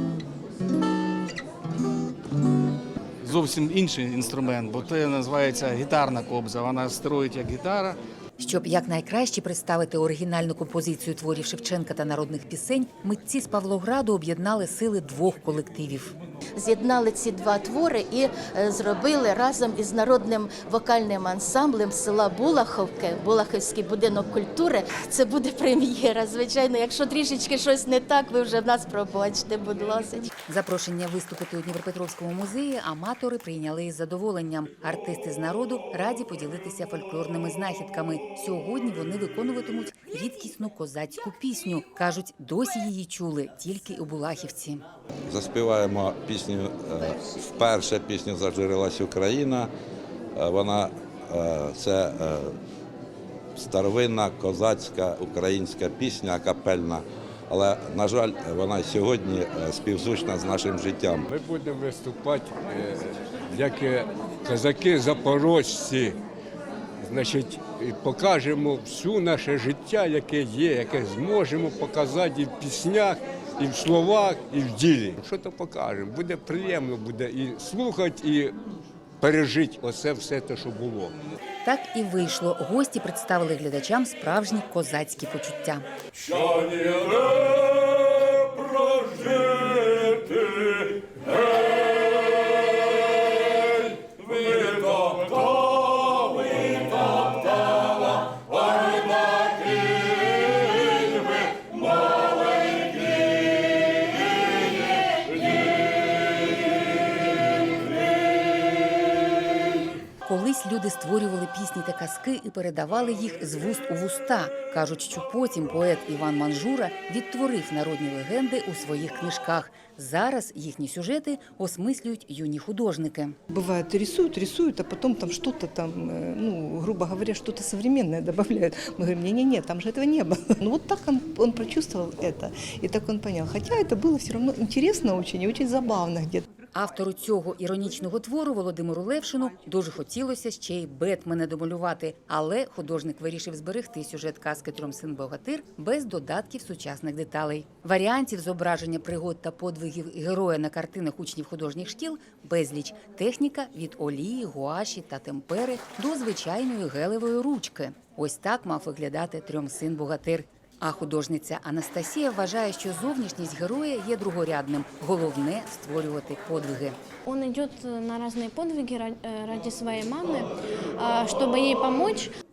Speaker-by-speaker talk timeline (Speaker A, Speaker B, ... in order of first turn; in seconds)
Speaker A: 3.2-8.0
Speaker B: 8.4-16.1, 30.5-44.8, 81.6-85.8, 110.2-123.4, 136.7-167.0
Speaker C: 16.6-30.3
Speaker D: 45.3-49.7, 50.3-52.5, 53.5-61.3
Speaker E: 61.3-66.2, 67.0-78.6, 79.2-81.1, 86.2-87.4, 88.9-89.7, 94.5-95.2
Speaker F: 123.5-136.5
Speaker G: 167.2-172.3